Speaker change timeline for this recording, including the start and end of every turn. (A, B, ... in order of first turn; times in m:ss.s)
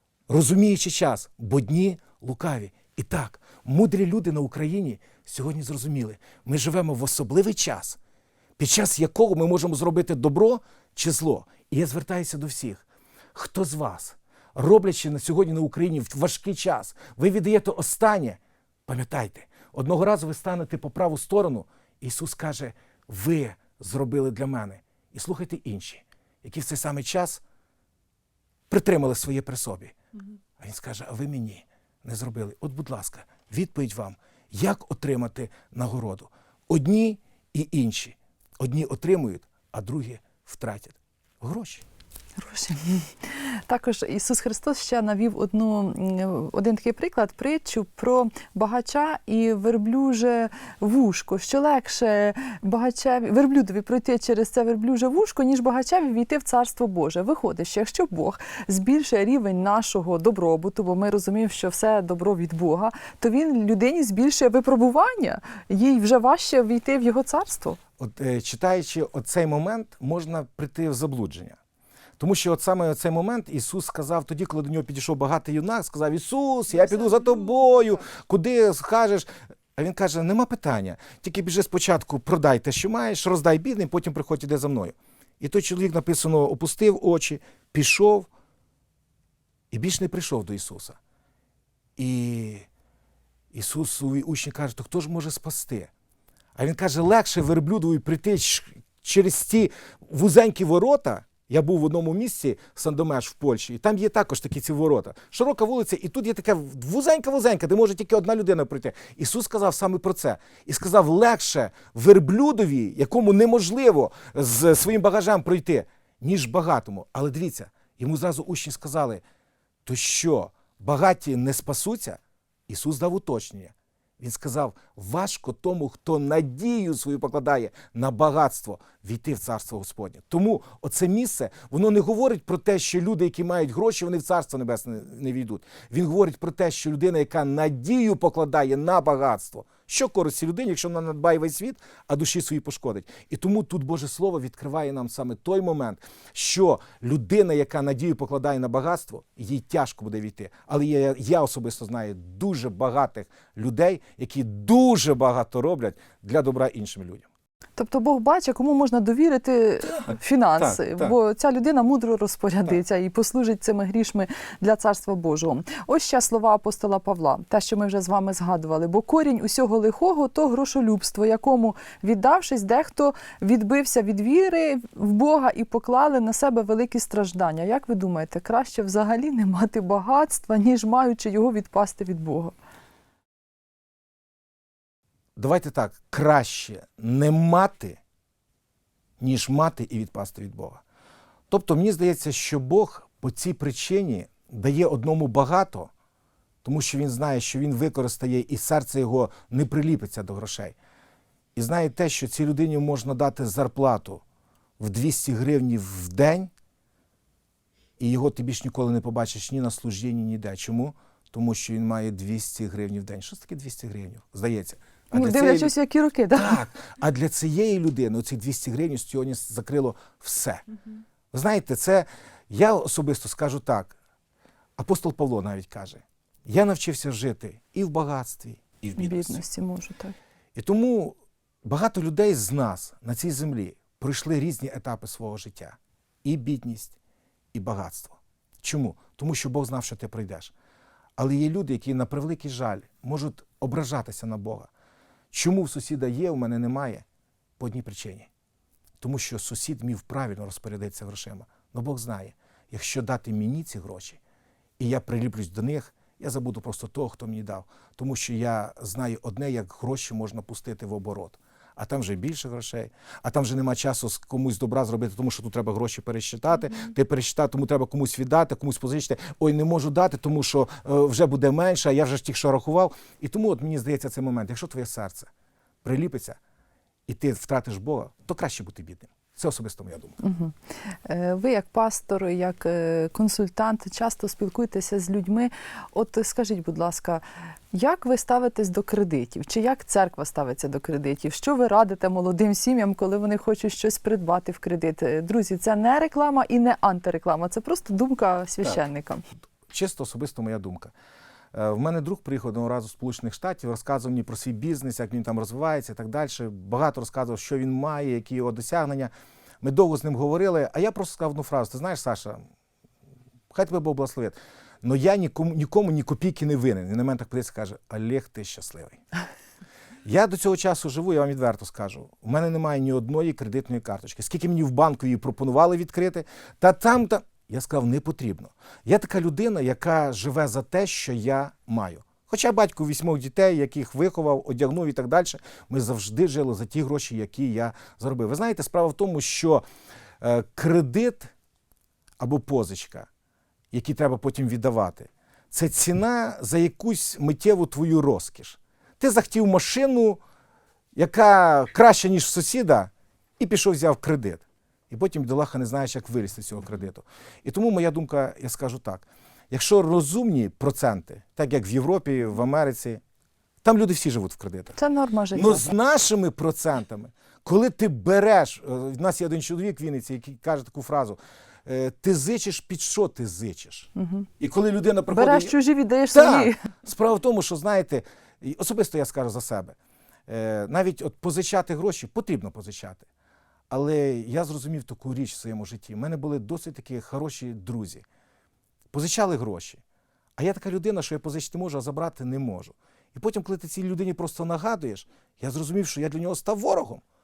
0:00.3-0:08.0 A
0:08.6-0:27.4 A
0:28.7-0:29.9 A
0:30.6-0:41.8 A
0:42.4-1:07.8 B
1:08.0-1:11.6 A
1:12.2-1:28.3 A
1:29.7-1:31.0 A
1:32.0-1:32.7 A
1:33.5-1:35.9 A
1:36.6-1:59.2 A
1:59.8-2:37.3 A
2:37.8-3:02.6 B
2:40.6-2:41.1 A
3:05.4-3:08.0 A
3:09.2-3:10.8 A
3:11.5-3:15.9 A
3:16.6-3:20.7 A
3:21.5-3:24.2 A
3:24.8-3:26.5 A
3:28.0-3:35.7 A
3:35.1-3:36.6 B
3:36.3-3:40.6 A
3:41.3-3:44.0 A
3:44.8-3:49.4 A
3:49.0-3:50.2 B
3:50.5-3:56.9 A
3:57.5-4:00.5 A
4:01.2-4:04.7 A
4:05.3-4:07.0 A
4:07.6-4:08.3 A
4:09.0-4:14.2 A
4:14.8-4:35.3 A
4:35.8-4:36.4 A
4:37.1-4:40.2 A
4:40.2-4:59.2 B
4:59.7-5:00.9 A
5:01.5-5:09.1 A
5:09.6-5:12.4 A
5:13.5-5:19.0 A
5:20.0-5:39.6 A
5:40.2-5:41.3 A
5:42.2-5:43.1 A
5:43.7-5:50.2 A
5:50.9-6:03.0 A
6:03.6-6:04.8 A
6:04.8-6:05.6 B
6:05.3-6:13.9 A
6:14.0-6:14.3 B
6:14.4-6:15.5 A
6:15.1-6:16.6 B
6:16.1-6:19.8 A
6:20.3-6:23.1 A
6:23.7-6:28.0 A
6:28.9-6:29.8 A
6:30.4-6:37.0 A